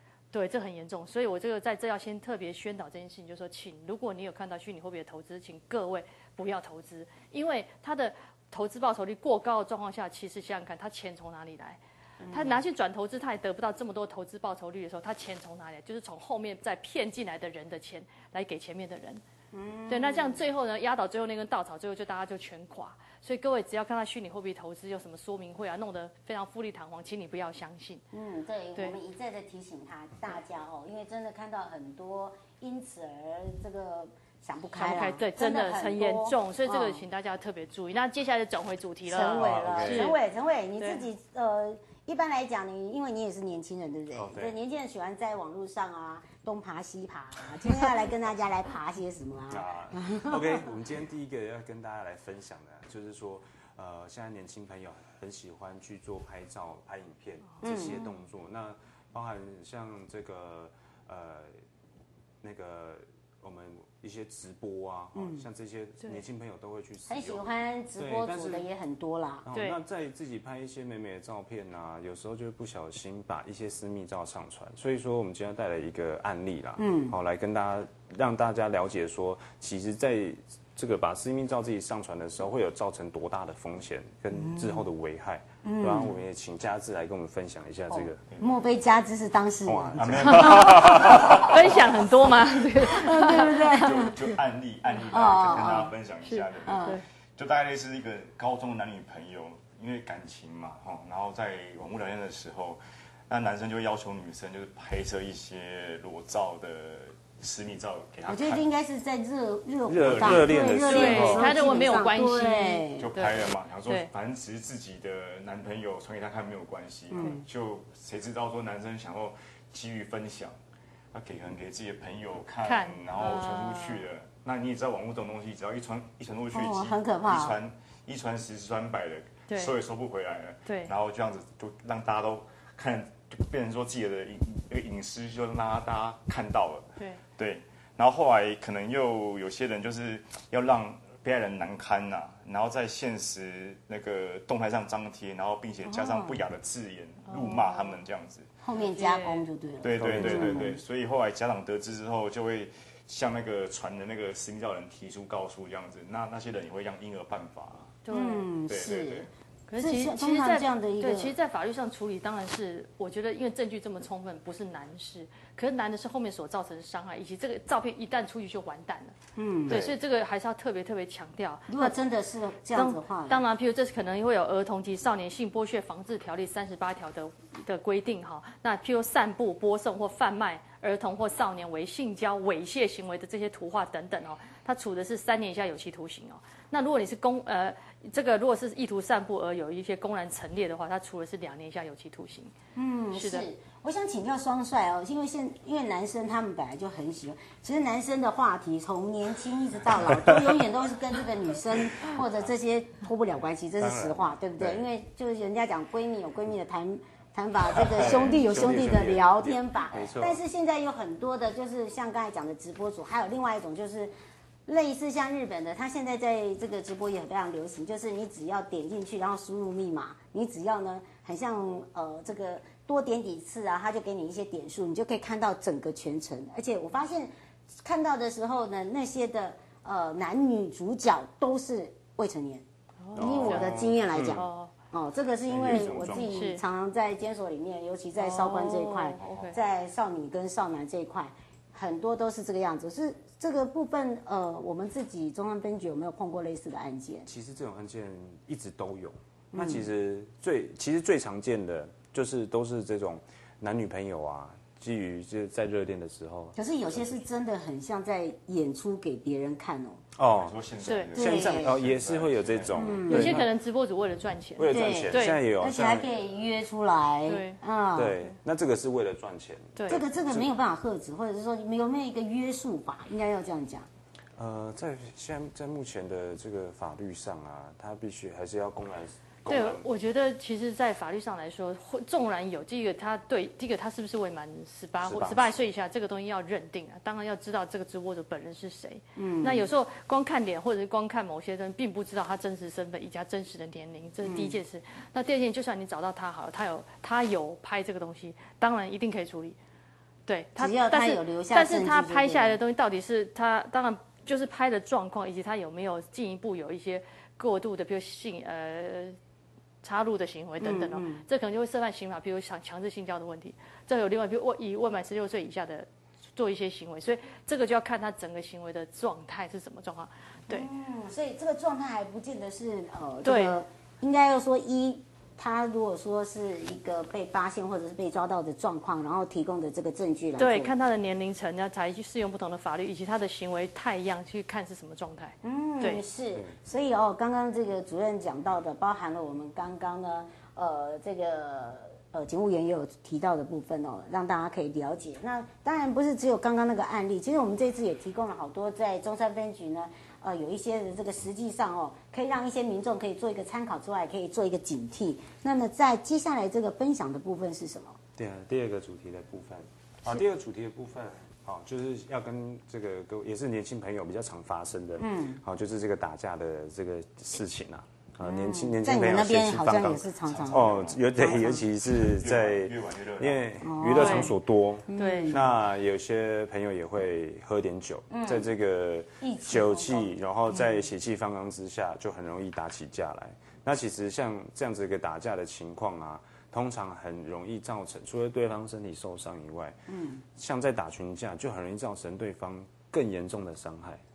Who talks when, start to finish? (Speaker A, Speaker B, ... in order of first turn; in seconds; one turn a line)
Speaker A: 0.3-11.8
Speaker B: 12.2-12.6
Speaker A: 12.3-19.2
Speaker B: 19.5-20.5
Speaker A: 19.9-28.0
Speaker B: 28.1-37.0
Speaker A: 34.7-40.2
Speaker B: 39.1-50.7
Speaker C: 39.3-40.1
Speaker A: 40.8-41.0
Speaker C: 44.1-44.5
Speaker C: 49.5-61.6
Speaker B: 57.6-58.1
Speaker C: 62.4-67.5
Speaker B: 65.2-65.5
Speaker B: 67.1-69.5
Speaker C: 68.0-68.7
Speaker C: 69.4-88.2
Speaker A: 69.5-69.8
Speaker B: 76.8-77.2
Speaker B: 84.3-84.8
Speaker B: 85.6-86.2
Speaker B: 87.9-91.9
Speaker C: 89.7-91.5
Speaker D: 90.0-92.3
Speaker A: 91.4-93.8
Speaker B: 92.8-94.3
Speaker D: 93.7-108.6
Speaker B: 95.0-95.9
Speaker A: 96.3-97.0
Speaker B: 96.6-97.0
Speaker B: 108.3-113.1
Speaker C: 109.9-111.6
Speaker D: 110.0-111.1
Speaker A: 110.7-114.1
Speaker D: 113.0-120.5
Speaker B: 117.1-117.4
Speaker D: 121.1-148.5
Speaker A: 122.6-124.0
Speaker B: 126.5-127.6
Speaker A: 129.5-129.7
Speaker A: 130.7-130.9
Speaker B: 145.9-146.4
Speaker A: 147.3-148.0
Speaker B: 148.6-150.8
Speaker A: 148.8-149.5
Speaker D: 149.8-157.9
Speaker C: 149.9-150.8
Speaker A: 158.1-158.5
Speaker B: 158.1-161.3
Speaker D: 158.7-159.3
Speaker A: 159.7-169.1
Speaker B: 169.4-169.9
Speaker C: 169.7-169.9
Speaker A: 169.7-172.0
Speaker B: 171.7-173.4
Speaker A: 172.7-192.5
Speaker B: 192.8-214.1
Speaker A: 193.1-193.5
Speaker C: 203.8-204.8
Speaker C: 207.8-210.4
Speaker B: 214.7-247.3
Speaker A: 233.0-234.7
Speaker C: 233.2-234.4
Speaker C: 235.5-236.5
Speaker A: 236.1-236.6
Speaker A: 238.2-239.6
Speaker C: 247.3-257.2
Speaker B: 249.5-249.9
Speaker B: 256.6-260.0
Speaker C: 260.2-263.5
Speaker D: 260.3-263.0
Speaker A: 260.8-261.1
Speaker B: 261.1-261.8
Speaker B: 262.7-263.4
Speaker A: 263.1-265.4
Speaker C: 264.6-266.1
Speaker B: 264.7-268.2
Speaker A: 267.3-267.6
Speaker C: 267.9-270.5
Speaker A: 269.8-270.0
Speaker B: 269.9-273.9
Speaker C: 274.4-279.9
Speaker A: 279.5-299.6
Speaker C: 285.0-285.6
Speaker B: 289.2-289.7
Speaker B: 294.2-294.6
Speaker A: 300.3-309.2
Speaker B: 300.6-302.6
Speaker A: 309.8-320.7
Speaker B: 310.6-311.2
Speaker B: 320.5-330.7
Speaker A: 323.2-323.6
Speaker A: 330.4-336.0
Speaker B: 335.4-358.0
Speaker C: 358.2-389.8
Speaker B: 365.0-365.4
Speaker B: 368.2-371.6
Speaker D: 370.3-373.5
Speaker B: 373.6-374.4
Speaker A: 373.9-374.3
Speaker B: 374.9-375.6
Speaker A: 375.0-375.4
Speaker B: 378.1-378.5
Speaker B: 379.2-380.8
Speaker B: 389.9-390.2
Speaker C: 390.4-394.0